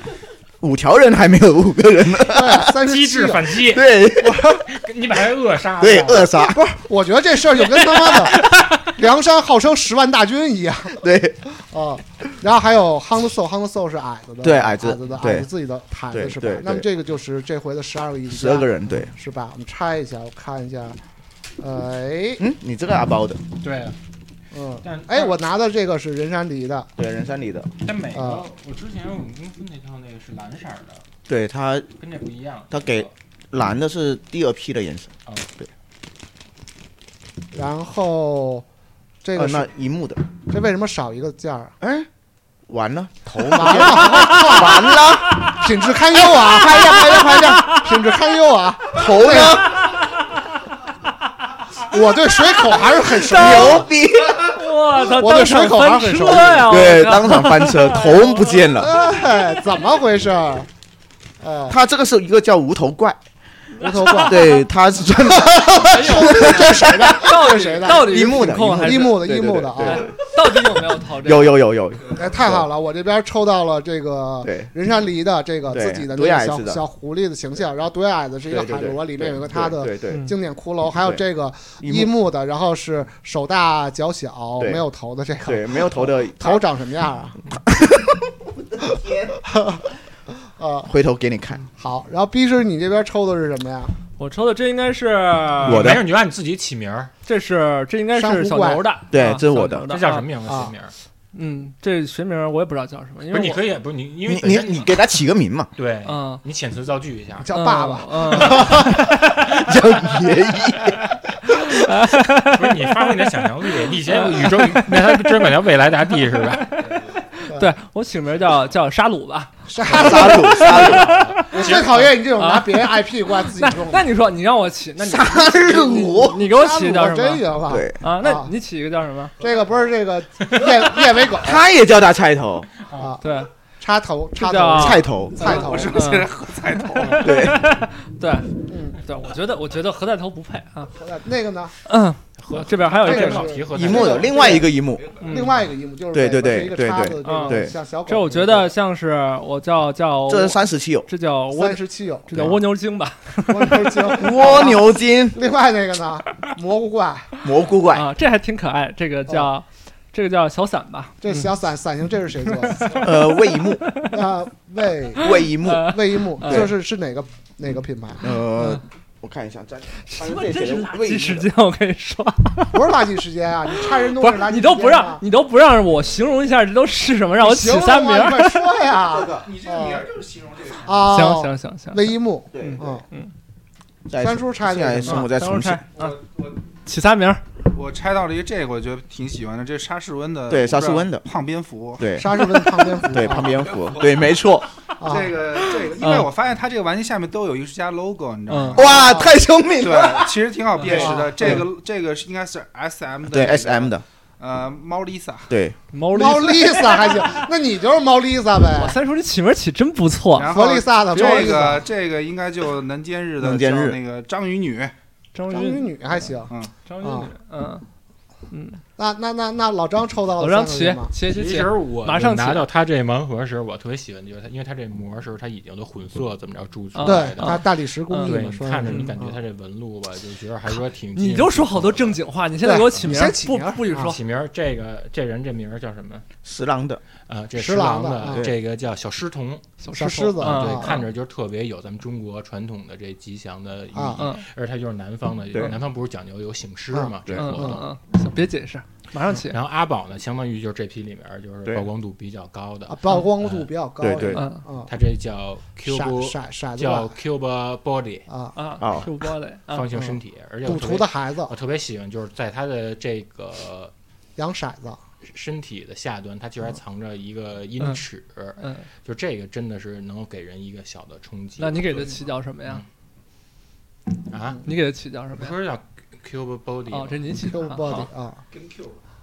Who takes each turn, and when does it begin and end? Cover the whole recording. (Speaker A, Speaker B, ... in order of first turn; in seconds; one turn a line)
Speaker A: 0.6-2.7
Speaker B: 2.2-3.6
Speaker C: 2.6-6.4
Speaker A: 3.6-4.5
Speaker A: 5.8-6.7
Speaker B: 6.3-11.0
Speaker C: 7.6-8.8
Speaker A: 11.0-11.4
Speaker B: 11.6-21.0
Speaker A: 14.4-15.5
Speaker A: 16.1-16.9
Speaker A: 18.3-19.1
Speaker B: 21.6-22.4
Speaker A: 22.4-23.4
Speaker C: 23.6-24.0
Speaker B: 24.5-26.9
Speaker C: 24.8-25.4
Speaker A: 27.0-27.7
Speaker C: 27.8-31.1
Speaker B: 28.1-28.5
Speaker A: 31.3-31.9
Speaker C: 32.0-33.1
Speaker A: 32.7-35.7
Speaker C: 35.3-35.5
Speaker B: 37.5-38.6
Speaker B: 39.2-39.7
Speaker A: 39.4-40.3
Speaker B: 40.5-41.8
Speaker A: 41.8-42.1
Speaker A: 42.7-48.0
Speaker B: 43.5-49.8
Speaker A: 48.9-50.0
Speaker B: 51.8-53.9
Speaker A: 53.0-54.6
Speaker D: 53.5-53.8
Speaker D: 54.4-58.8
Speaker B: 55.1-56.8
Speaker A: 56.7-59.0
Speaker B: 58.8-60.7
Speaker B: 61.4-61.8
Speaker A: 61.7-63.2
Speaker D: 63.7-64.6
Speaker B: 63.8-64.6
Speaker A: 64.1-72.7
Speaker B: 65.3-70.1
Speaker D: 65.8-69.3
Speaker D: 69.8-71.6
Speaker B: 72.1-87.4
Speaker A: 74.4-74.7
Speaker A: 75.7-76.8
Speaker A: 78.5-80.2
Speaker D: 80.1-80.3
Speaker A: 81.0-81.2
Speaker A: 81.8-82.1
Speaker A: 85.4-86.7
Speaker A: 87.7-88.2
Speaker A: 88.8-89.4
Speaker B: 89.5-89.8
Speaker B: 90.6-90.9
Speaker A: 90.9-91.7
Speaker B: 91.7-94.0
Speaker D: 94.2-96.0
Speaker C: 95.6-97.1
Speaker A: 95.6-96.1
Speaker D: 97.2-100.3
Speaker B: 98.2-98.9
Speaker A: 99.1-99.9
Speaker C: 99.9-100.9
Speaker B: 100.5-100.7
Speaker D: 101.3-103.6
Speaker C: 103.3-105.1
Speaker A: 104.3-105.7
Speaker C: 105.8-107.5
Speaker D: 106.0-106.4
Speaker B: 107.4-109.0
Speaker D: 107.5-108.9
Speaker A: 108.4-111.7
Speaker D: 111.5-113.2
Speaker C: 112.4-116.9
Speaker D: 113.9-115.3
Speaker D: 116.3-129.4
Speaker B: 119.7-121.0
Speaker A: 119.8-121.2
Speaker C: 120.4-122.2
Speaker B: 121.5-124.1
Speaker A: 125.0-126.5
Speaker B: 125.8-128.5
Speaker A: 127.7-128.0
Speaker B: 129.4-131.6
Speaker A: 131.3-132.7
Speaker B: 132.9-133.2
Speaker D: 133.2-133.5
Speaker B: 133.8-136.1
Speaker D: 134.4-140.9
Speaker A: 134.7-135.5
Speaker E: 135.4-137.3
Speaker A: 137.2-137.9
Speaker B: 138.7-139.0
Speaker B: 141.0-141.7
Speaker D: 141.8-143.7
Speaker C: 142.4-144.5
Speaker B: 143.0-144.7
Speaker A: 143.7-145.2
Speaker C: 145.2-145.6
Speaker B: 145.2-148.7
Speaker A: 146.1-147.7
Speaker D: 147.2-154.3
Speaker A: 150.3-151.1
Speaker B: 151.5-152.3
Speaker B: 153.5-157.5
Speaker A: 154.2-155.4
Speaker A: 157.4-158.1
Speaker D: 157.9-161.5
Speaker B: 161.2-163.1
Speaker D: 162.6-164.2
Speaker A: 163.0-163.9
Speaker B: 164.0-168.3
Speaker A: 165.2-166.8
Speaker D: 165.3-166.7
Speaker A: 168.2-171.5
Speaker D: 168.6-168.8
Speaker D: 170.0-172.9
Speaker B: 172.7-175.2
Speaker D: 173.7-178.7
Speaker B: 177.4-180.1
Speaker A: 179.2-179.4
Speaker E: 179.3-180.9
Speaker B: 180.7-183.1
Speaker D: 181.1-183.3
Speaker A: 182.5-183.0
Speaker A: 184.1-185.8
Speaker B: 184.2-185.3
Speaker D: 185.1-186.2
Speaker E: 185.9-186.6
Speaker D: 186.8-187.4
Speaker E: 187.7-192.2
Speaker A: 190.5-191.3
Speaker D: 190.8-191.0
Speaker A: 192.0-194.7
Speaker B: 192.1-193.6
Speaker B: 195.0-195.4
Speaker E: 195.0-199.1
Speaker D: 195.8-196.3
Speaker D: 198.5-198.9
Speaker A: 198.7-201.6
Speaker B: 198.9-199.4
Speaker E: 199.8-205.5
Speaker D: 200.8-201.1
Speaker B: 200.9-201.6
Speaker A: 203.3-204.1
Speaker A: 205.5-205.8
Speaker D: 205.9-207.5
Speaker B: 206.1-209.0
Speaker D: 208.7-211.8
Speaker E: 210.4-214.9
Speaker B: 210.5-211.9
Speaker A: 213.4-214.0
Speaker D: 215.3-216.2
Speaker B: 215.5-217.3
Speaker D: 216.9-217.9
Speaker D: 218.5-218.8
Speaker B: 219.0-221.1
Speaker D: 220.4-222.7
Speaker C: 221.3-232.2
Speaker D: 226.9-229.1
Speaker B: 227.0-229.4
Speaker D: 231.2-234.2
Speaker B: 232.6-234.2
Speaker C: 234.0-236.3
Speaker A: 236.4-237.0
Speaker C: 237.3-239.7
Speaker B: 237.6-238.5
Speaker D: 239.8-241.0
Speaker B: 239.9-241.1
Speaker C: 240.4-247.9
Speaker B: 243.9-244.2
Speaker D: 244.2-244.5
Speaker B: 246.9-247.8
Speaker D: 247.3-249.6
Speaker C: 249.4-253.7
Speaker B: 252.9-254.9
Speaker A: 254.0-254.4
Speaker D: 254.3-254.7
Speaker C: 254.9-258.3
Speaker B: 255.9-257.2
Speaker B: 258.3-258.6
Speaker D: 258.6-259.9
Speaker A: 258.8-259.1
Speaker C: 259.7-263.9
Speaker B: 259.9-261.6
Speaker B: 264.4-265.0
Speaker C: 265.2-272.9
Speaker D: 268.6-268.9
Speaker D: 271.6-272.8
Speaker C: 274.3-274.6
Speaker D: 274.7-275.6
Speaker C: 275.3-278.1
Speaker D: 276.9-278.0
Speaker B: 277.5-278.4